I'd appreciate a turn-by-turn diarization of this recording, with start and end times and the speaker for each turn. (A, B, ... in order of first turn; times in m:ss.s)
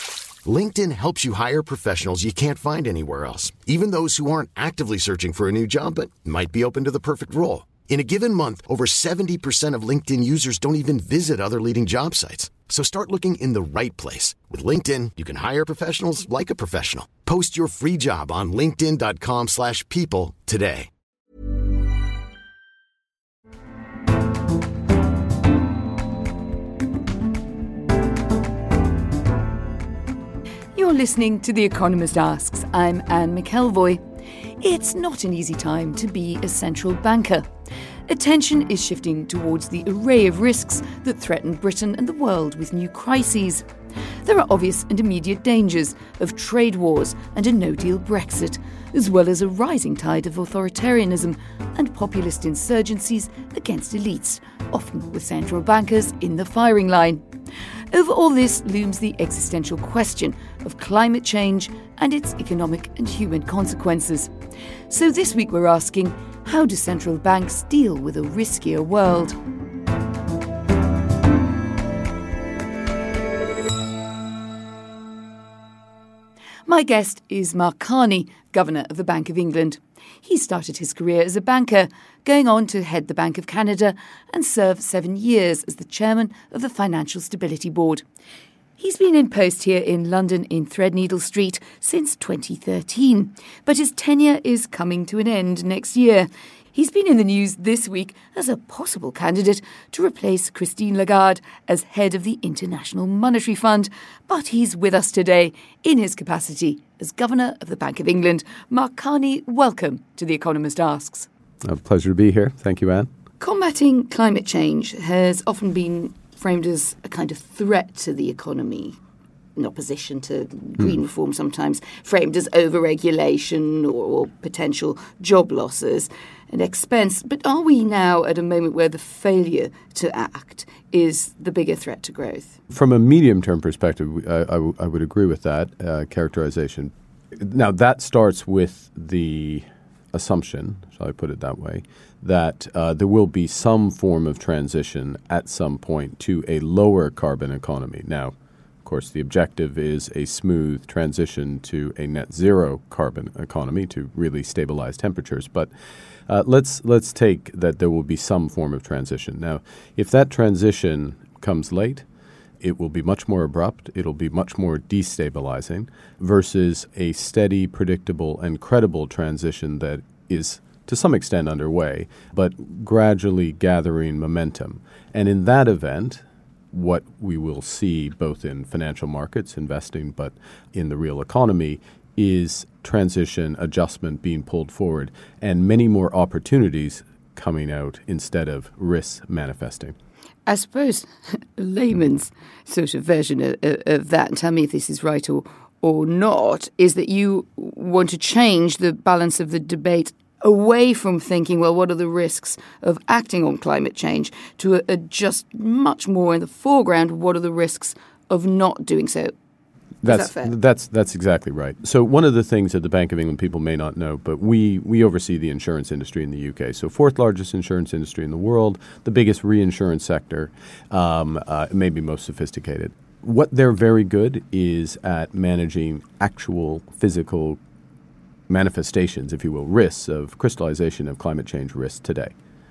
0:00.4-0:20.9 A
0:30.8-0:34.0 B
0:34.6-0:37.4 B
0:38.1-0:43.6 B
0:44.2-0:57.2 B
0:57.9-1:04.3 B
1:04.9-1:09.4 B
1:16.7-1:28.0 B
1:28.8-1:51.3 B
1:51.6-1:53.1 C
1:53.4-1:59.0 B
1:59.6-2:12.6 B
2:12.7-2:35.7 C
2:36.3-2:42.0 C
2:42.6-3:09.9 C
3:10.5-3:29.3 B
3:30.0-3:47.6 C
3:30.0-3:30.5 B
3:48.5-3:52.3 C